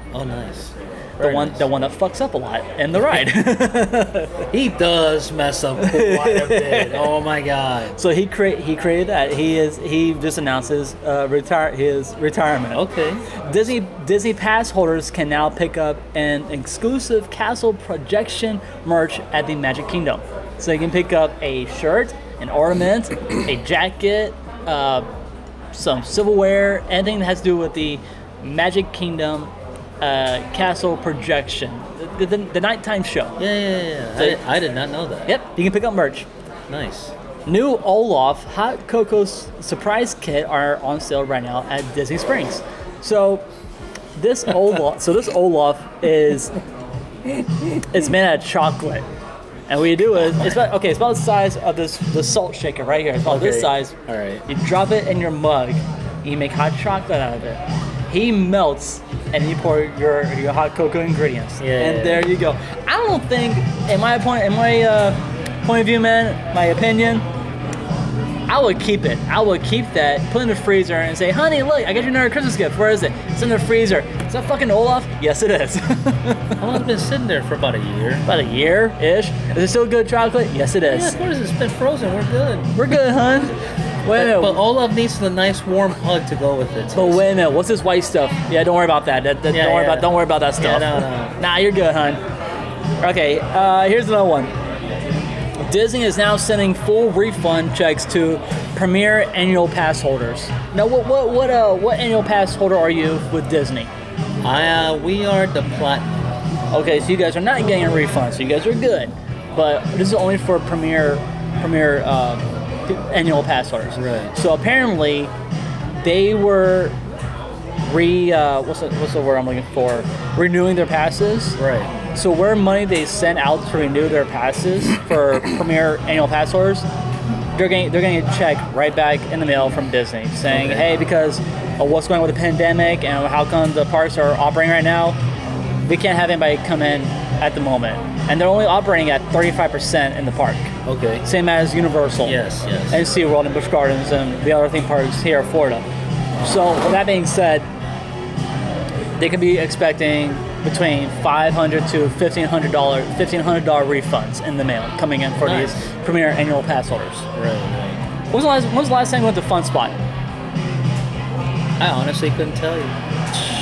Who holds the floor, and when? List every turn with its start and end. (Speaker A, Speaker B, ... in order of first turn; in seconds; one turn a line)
Speaker A: 0.1-1.7
Speaker B: 1.2-4.4
Speaker A: 4.5-8.0
Speaker B: 5.8-7.1
Speaker B: 8.0-12.8
Speaker A: 12.7-13.4
Speaker B: 13.4-25.1
Speaker B: 25.7-33.4
Speaker A: 33.4-35.3
Speaker B: 35.3-36.3
Speaker A: 36.7-37.1
Speaker B: 37.5-43.4
Speaker B: 44.1-46.5
Speaker B: 47.8-49.0
Speaker B: 49.7-53.9
Speaker A: 53.2-54.4
Speaker B: 54.5-67.2
Speaker A: 61.6-62.3
Speaker B: 68.5-76.6
Speaker A: 76.6-78.3
Speaker B: 78.2-81.2
Speaker A: 80.9-82.8
Speaker B: 82.7-83.5
Speaker B: 84.0-84.6
Speaker A: 84.1-87.3
Speaker B: 86.9-92.2
Speaker A: 89.5-91.3
Speaker B: 93.0-94.5
Speaker B: 95.6-103.9
Speaker A: 104.4-106.4
Speaker B: 106.7-115.3
Speaker A: 113.9-114.3
Speaker B: 116.0-117.0
Speaker B: 117.8-121.6
Speaker A: 121.6-121.9
Speaker B: 122.1-126.9
Speaker B: 127.5-135.2
Speaker A: 130.5-130.9
Speaker B: 135.8-140.7
Speaker A: 140.8-141.2
Speaker B: 141.2-142.4
Speaker A: 142.2-143.1
Speaker B: 142.9-145.9
Speaker B: 146.4-147.7
Speaker B: 149.2-157.2
Speaker A: 155.4-155.8
Speaker A: 157.3-158.0
Speaker B: 158.3-160.0
Speaker A: 161.8-163.0